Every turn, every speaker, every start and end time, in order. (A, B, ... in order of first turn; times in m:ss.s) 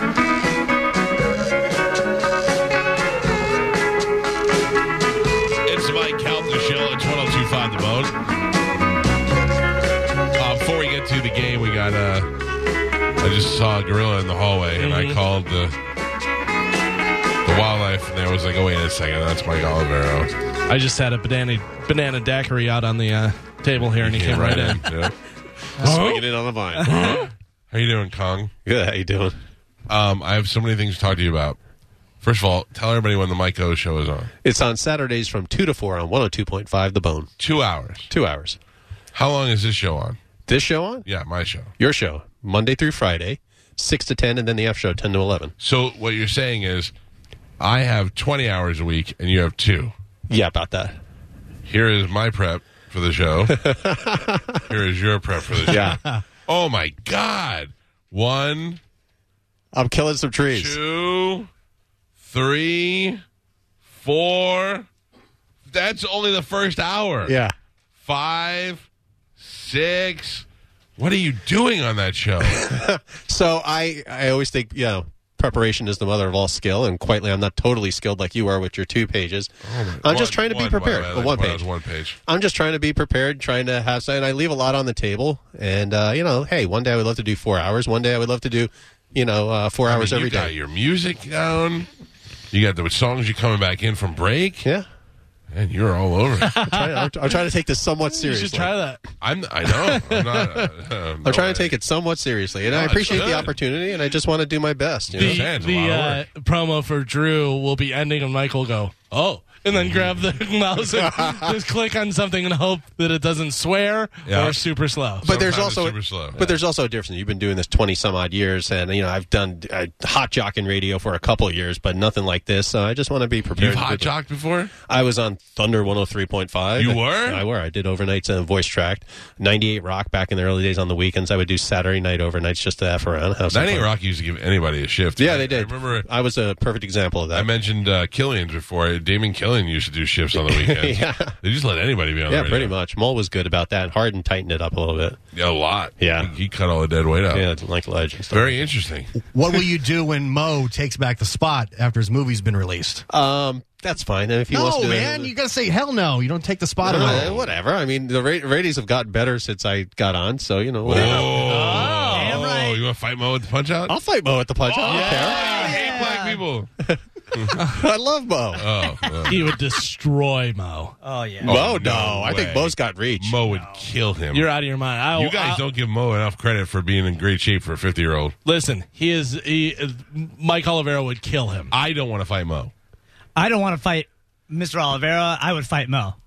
0:05.6-0:08.2 A
0:10.4-0:12.3 A
0:13.2-0:15.8 A
0:14.7-0:15.2 B
0:17.4-0:20.4 A
0:20.7-0:24.8 B
0:23.8-0:25.1 A
0:25.8-0:27.1 C
0:25.8-0:26.2 A
0:26.8-0:28.5 A
0:28.6-0:29.4 C
0:29.9-0:31.6 A
0:32.2-0:34.3 A
0:34.4-0:37.3 C
0:37.4-0:38.1 A
0:38.1-0:38.6 C
0:39.1-0:40.2 A
0:40.5-0:41.1 C
0:41.0-0:41.8 A
0:41.8-0:45.5 C
0:45.6-0:46.9 A
0:47.6-0:50.0 A
0:50.3-0:51.0 C
0:51.7-0:53.6 A
0:53.5-0:54.6 C
0:54.7-0:56.0 A
0:55.6-0:56.0 C
0:55.8-0:56.2 D
0:56.5-0:58.8 A
0:59.7-1:00.8 C
1:00.5-1:01.5 A
1:02.2-1:03.2 A
1:03.9-1:04.9 A
1:05.7-1:07.4 A
1:07.2-1:07.5 C
1:08.0-1:08.9 A
1:09.4-1:10.4 A
1:11.0-1:12.6 A
1:12.4-1:21.7 C
1:19.6-1:22.2 A
1:22.2-1:30.6 C
1:29.8-1:31.9 A
1:32.5-1:34.7 A
1:35.5-1:36.6 A
1:36.4-1:37.1 B
1:36.6-1:39.0 C
1:38.2-1:39.0 B
1:39.2-1:41.8 A
1:39.8-1:40.6 C
1:41.2-1:45.5 C
1:42.7-1:43.5 A
1:45.1-1:46.2 A
1:45.2-1:55.3 B
1:49.7-1:50.2 A
1:51.1-1:51.6 C
1:54.2-1:54.7 A
1:55.2-2:04.2 C
1:55.3-1:56.6 A
2:03.6-2:04.7 A
2:04.8-2:13.9 C
2:06.8-2:07.4 A
2:13.5-2:16.1 A
2:15.2-2:17.5 C
2:17.3-2:22.8 A
2:20.3-2:21.4 C
2:22.3-2:25.2 C
2:25.3-2:27.4 A
2:26.0-2:26.3 C
2:27.3-2:28.6 C
2:28.3-2:29.1 A
2:29.2-2:33.0 D
2:33.1-2:35.3 C
2:34.5-2:37.3 D
2:36.8-2:42.1 C
2:37.1-2:37.4 A
2:40.8-2:44.0 A
2:40.9-2:42.8 E
2:41.5-2:42.3 B
2:43.9-2:45.5 C
2:44.7-2:46.7 A
2:44.9-2:46.4 E
2:46.8-2:48.6 C
2:48.6-2:49.5 A
2:49.3-2:50.9 B
2:51.0-2:51.6 E
2:51.4-2:54.5 A
2:51.4-2:53.4 C
2:53.5-2:53.8 E
2:54.3-2:55.6 B
2:55.1-2:58.4 A
2:58.5-3:01.7 B
3:01.7-3:02.7 A
3:03.4-3:06.2 E